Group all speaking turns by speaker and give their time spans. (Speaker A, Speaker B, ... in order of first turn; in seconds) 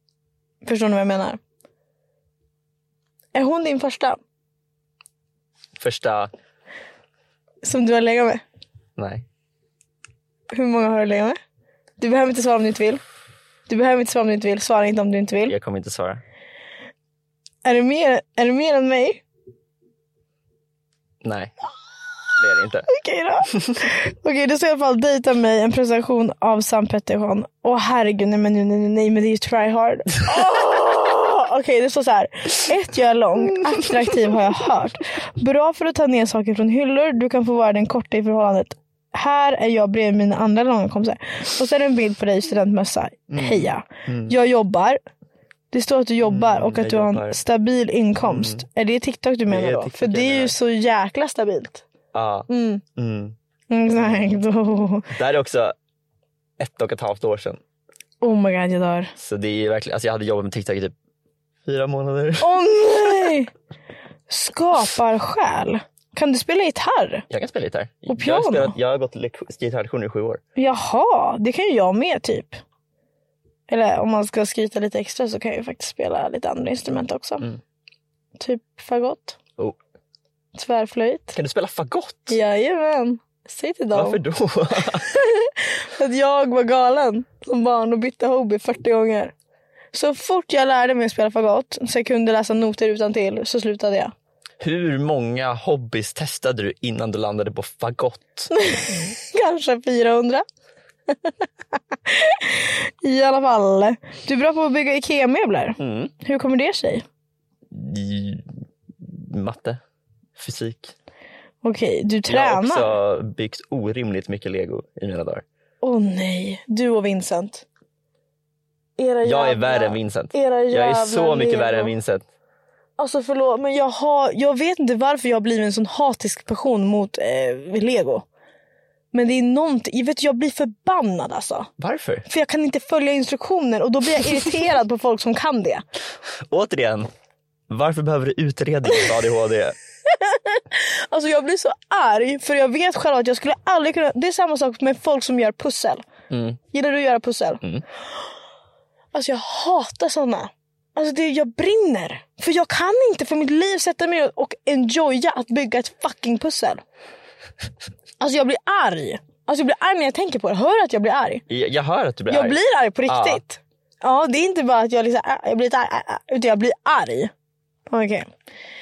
Speaker A: 0.6-1.4, 3.3-4.2, 7.6-8.4, 10.5-11.4, 12.0-13.0, 13.7-15.6, 17.6-19.2, 22.9-45.0, 45.7-51.8, 52.5-52.8, 53.7-55.1, 58.2-59.1, 62.4-63.5, 64.3-67.2, 68.1-68.8, 70.6-72.6, 73.7-77.5, 78.4-79.4, 80.5-81.4, 82.3-84.2, 85.0-89.3, 89.9-94.1, 98.5-100.4, 102.1-107.0, 111.6-112.9, 115.8-117.7, 119.0-121.9, 123.0-128.2, 129.1-131.7, 132.3-135.8, 140.2-146.1, 146.7-147.6, 149.1-156.8, 158.2-161.4, 162.3-167.3, 167.9-168.3
Speaker B: 5.8-6.3, 9.0-9.2, 15.5-16.2, 21.2-21.5, 22.4-22.9, 43.3-44.4, 46.2-47.4, 48.2-48.6, 49.5-50.6, 52.1-53.4, 54.0-54.4, 55.1-55.8, 56.6-57.6, 59.2-60.9, 61.6-63.3, 67.3-70.4, 81.3-82.4, 83.9-85.1, 94.6-98.5, 105.8-106.1, 107.7-109.8, 110.4-110.9, 112.3-115.5, 119.2-122.3, 131.8-132.3, 136.5-137.1, 137.7-139.8, 146.3-146.6, 161.5-163.4